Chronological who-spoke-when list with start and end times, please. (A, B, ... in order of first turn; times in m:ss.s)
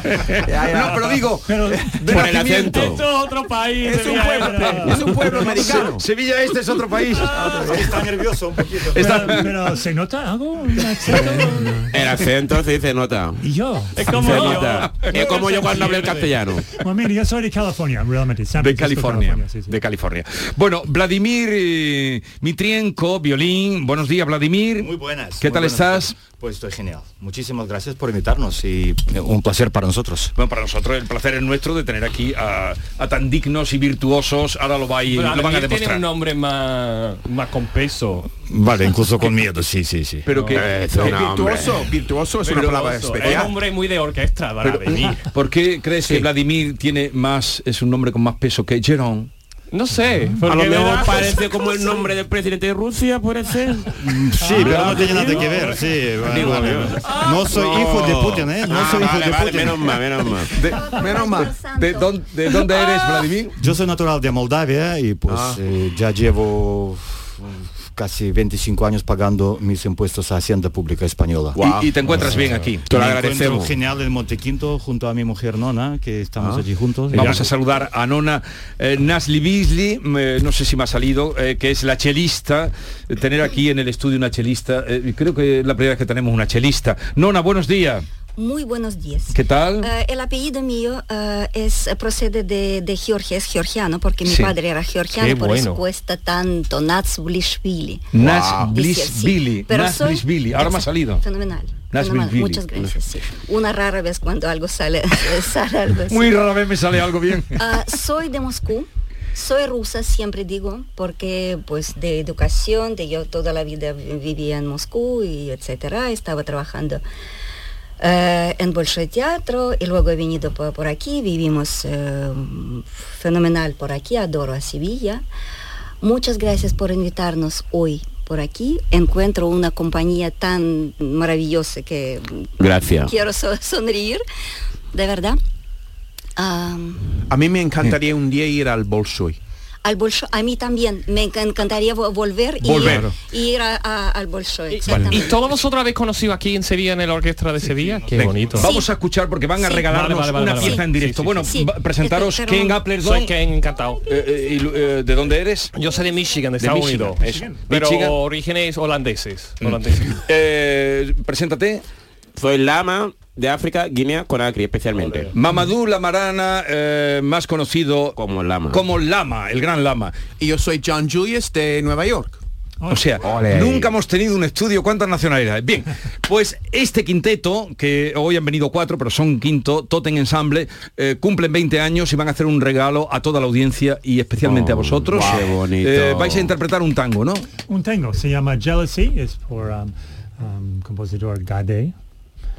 0:00.1-0:02.9 A
0:00.5-0:01.2 B
0:01.4-0:01.9 C
0:02.0-0:03.0 D
0:02.4-0:05.8 E
0:03.8-0:06.0 B
0:04.1-0:05.9 C
0:05.8-0:07.4 A
0:07.1-0:08.2 C
0:07.4-0:09.2 F
0:08.8-0:12.2 C
0:08.9-0:09.6 A
0:11.9-0:13.4 D
0:13.4-0:16.1 C
0:13.9-0:16.2 E
0:14.1-0:16.7 D
0:16.7-0:19.8 C
0:18.6-0:26.2 A
0:24.8-0:30.3 F
0:30.3-0:36.0 A
0:35.1-0:38.3 E
0:38.5-0:40.3 F
0:40.2-0:41.2 A
0:40.3-0:40.6 E
0:40.5-0:41.8 D
0:40.7-0:43.5 B
0:42.4-0:45.2 E
0:44.6-0:49.3 A
0:46.0-0:46.3 B
0:49.7-0:52.0 E
0:50.1-0:50.4 C
0:50.5-0:54.8 D
0:54.0-1:00.0 F
0:54.6-0:55.1 A
0:54.7-0:55.7 E
0:55.1-0:55.4 C
0:56.2-1:00.5 D
1:00.6-1:03.5 A
1:00.7-1:02.8 G
1:00.9-1:01.5 B
1:03.6-1:11.6 F
1:05.3-1:05.6 B
1:11.6-1:13.6 B
1:11.6-1:13.7 A
1:12.1-1:12.4 F
1:12.9-1:13.6 D
1:13.0-1:17.5 F
1:17.1-1:28.0 A
1:28.4-1:46.5 G
1:29.3-1:29.9 A
1:34.2-1:34.5 A
1:35.1-1:35.8 E
1:38.1-1:41.2 A
1:38.2-1:38.7 B
1:41.8-1:42.6 A
1:46.1-1:47.6 A
1:47.5-1:57.0 G
1:58.0-2:05.2 G
2:06.0-2:14.2 G
2:12.6-2:13.1 D
2:14.9-2:15.4 G
2:16.4-2:17.2 G
2:17.3-2:19.4 B
2:19.8-2:25.6 G
2:22.6-2:23.1 A
2:22.8-2:23.1 E
2:24.7-2:28.7 E
2:27.8-2:28.3 F
2:28.1-2:33.3 A
2:29.6-2:29.8 G
2:29.8-2:31.5 E
2:30.5-2:30.8 G
2:31.5-2:32.8 G
2:33.0-2:34.0 E
2:34.0-2:35.7 A
2:35.7-2:40.2 E
2:36.6-2:38.2 A
2:37.2-2:37.5 C
2:39.6-2:41.8 A
2:42.4-2:45.3 D
2:45.3-2:48.2 A
2:48.2-2:48.8 D
2:48.7-2:50.1 A
2:50.4-2:52.4 B
2:52.8-2:53.1 C
2:52.9-3:07.5 A
2:53.2-2:53.9 D
3:04.4-3:06.5 D
3:07.7-3:12.0 C